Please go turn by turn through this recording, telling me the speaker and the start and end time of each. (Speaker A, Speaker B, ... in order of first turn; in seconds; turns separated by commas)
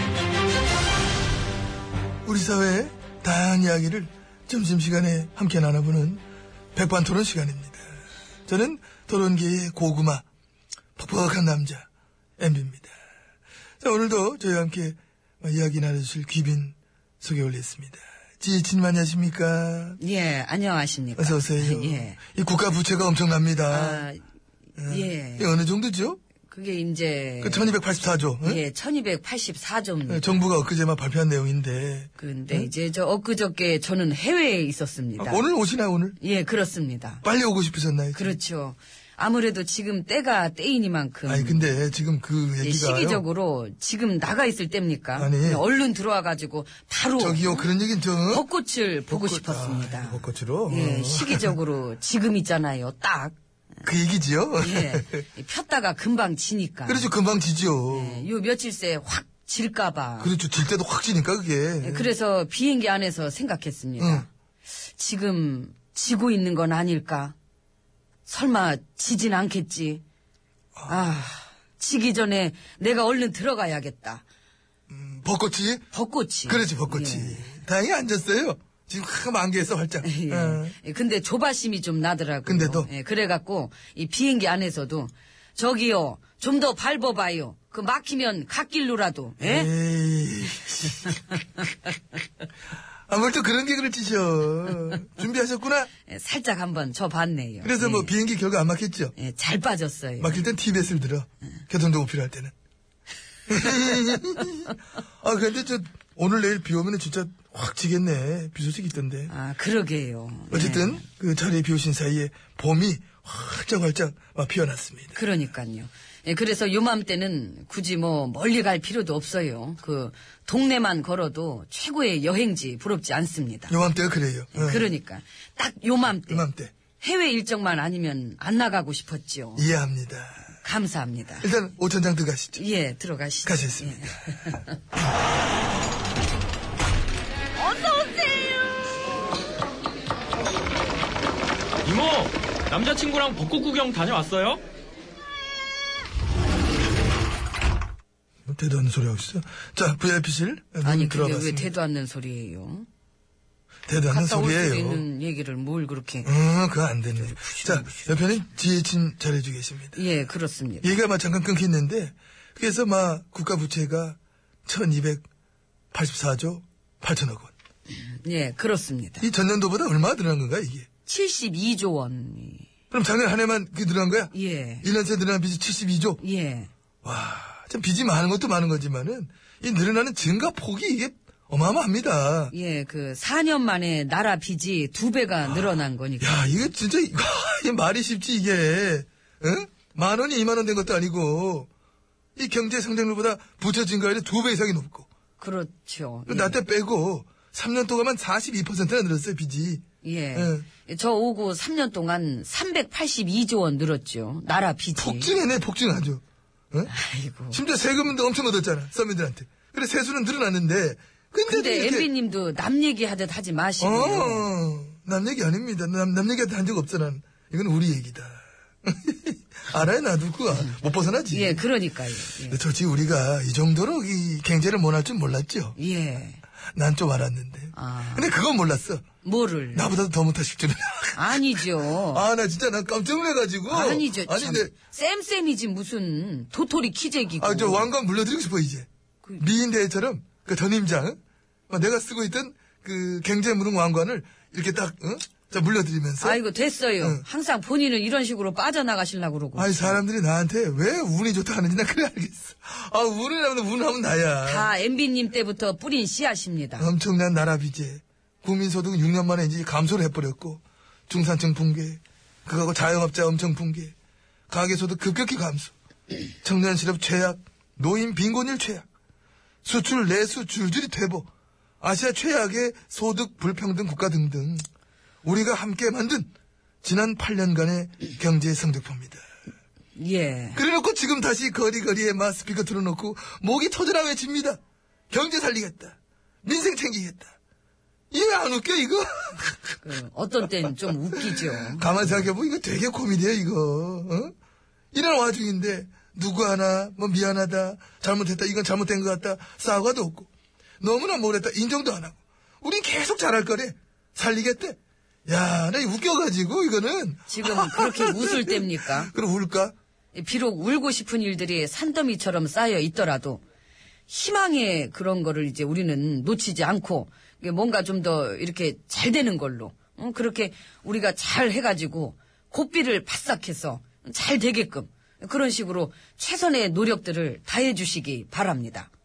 Speaker A: 2.2-6.2, Speaker A: 6.7-7.8, Speaker A: 8.5-10.2, Speaker A: 11.0-11.9, Speaker A: 12.4-12.9, Speaker A: 13.8-20.0, Speaker B: 20.0-22.2, Speaker A: 21.2-24.1, Speaker B: 23.7-24.2, Speaker A: 24.8-26.2, Speaker B: 24.9-25.5, Speaker B: 26.5-27.7, Speaker A: 27.4-28.6, Speaker B: 28.4-30.4, Speaker A: 30.1-32.7, Speaker B: 32.2-35.5, Speaker A: 35.2-36.2, Speaker B: 36.2-37.2, Speaker A: 37.2-38.4, Speaker B: 38.1-41.8, Speaker A: 41.2-43.2, Speaker B: 42.6-47.7, Speaker A: 45.1-45.6, Speaker A: 47.2-48.4, Speaker B: 48.3-53.4, Speaker A: 49.1-51.6, Speaker A: 53.8-55.2, Speaker B: 54.6-57.1, Speaker A: 56.9-58.3, Speaker B: 57.9-60.3, Speaker A: 60.2-62.1, Speaker B: 61.8-64.3, Speaker A: 64.0-64.2, Speaker B: 64.9-67.3, Speaker B: 68.2-70.0, Speaker A: 70.8-71.1, Speaker B: 70.9-74.2, Speaker A: 74.9-75.8, Speaker B: 75.9-77.6, Speaker A: 76.5-80.8, Speaker B: 80.0-89.7, Speaker A: 82.4-82.9, Speaker A: 89.4-91.2, Speaker A: 93.1-95.9, Speaker B: 96.1-98.1, Speaker A: 97.6-99.1, Speaker B: 99.2-100.5, Speaker A: 100.2-102.5, Speaker A: 103.5-109.3, Speaker B: 109.3-111.0, Speaker A: 110.5-115.2, Speaker B: 115.1-123.7, Speaker A: 123.7-124.9, Speaker B: 124.5-126.5, Speaker A: 126.2-126.7, Speaker B: 127.0-129.7, Speaker A: 129.6-130.4, Speaker B: 130.6-131.5, Speaker A: 131.4-132.6, Speaker B: 132.6-134.8, Speaker A: 133.4-134.4, Speaker B: 137.6-138.5, Speaker C: 141.8-144.6, Speaker A: 148.5-151.7, Speaker B: 150.8-152.9, Speaker A: 153.9-155.0, Speaker B: 153.9-156.3, Speaker A: 156.2-160.0, Speaker B: 157.2-158.2, Speaker B: 159.9-160.9, Speaker A: 160.8-165.2, Speaker A: 165.9-167.5, Speaker B: 167.9-169.3, Speaker A: 169.2-170.9, Speaker B: 171.1-172.7, Speaker A: 172.9-176.2, Speaker B: 174.3-174.9, Speaker B: 176.2-176.7, Speaker A: 177.0-182.5, Speaker B: 182.5-186.7, Speaker A: 185.4-191.7, Speaker A: 192.4-195.1, Speaker B: 195.4-196.6, Speaker A: 196.3-199.8, Speaker B: 200.0-205.4, Speaker A: 200.3-200.7, Speaker A: 204.9-206.9, Speaker B: 206.9-207.6, Speaker A: 207.5-212.1, Speaker B: 211.5-214.5, Speaker A: 213.8-221.6, Speaker B: 220.5-220.8, Speaker B: 221.3-222.6, Speaker A: 222.4-225.8, Speaker B: 225.8-226.4, Speaker A: 226.7-229.0, Speaker B: 227.7-228.3, Speaker B: 229.2-229.9, Speaker A: 229.7-234.7, Speaker B: 231.1-232.2, Speaker B: 233.7-237.9, Speaker A: 237.4-241.2, Speaker A: 241.7-246.4, Speaker B: 246.2-250.0, Speaker A: 249.5-254.7, Speaker B: 254.4-256.9, Speaker A: 256.8-263.9, Speaker A: 264.5-265.7, Speaker A: 266.4-268.8, Speaker A: 269.6-271.3, Speaker A: 271.8-274.6, Speaker A: 275.2-276.3, Speaker A: 276.8-279.2, Speaker B: 279.9-280.6, Speaker A: 280.5-284.6, Speaker A: 285.1-287.4, Speaker A: 288.1-289.8, Speaker B: 289.8-292.3, Speaker A: 291.1-294.3, Speaker A: 294.9-300.3, Speaker A: 300.8-309.7, Speaker B: 307.3-309.1, Speaker B: 310.1-313.4, Speaker B: 314.1-328.9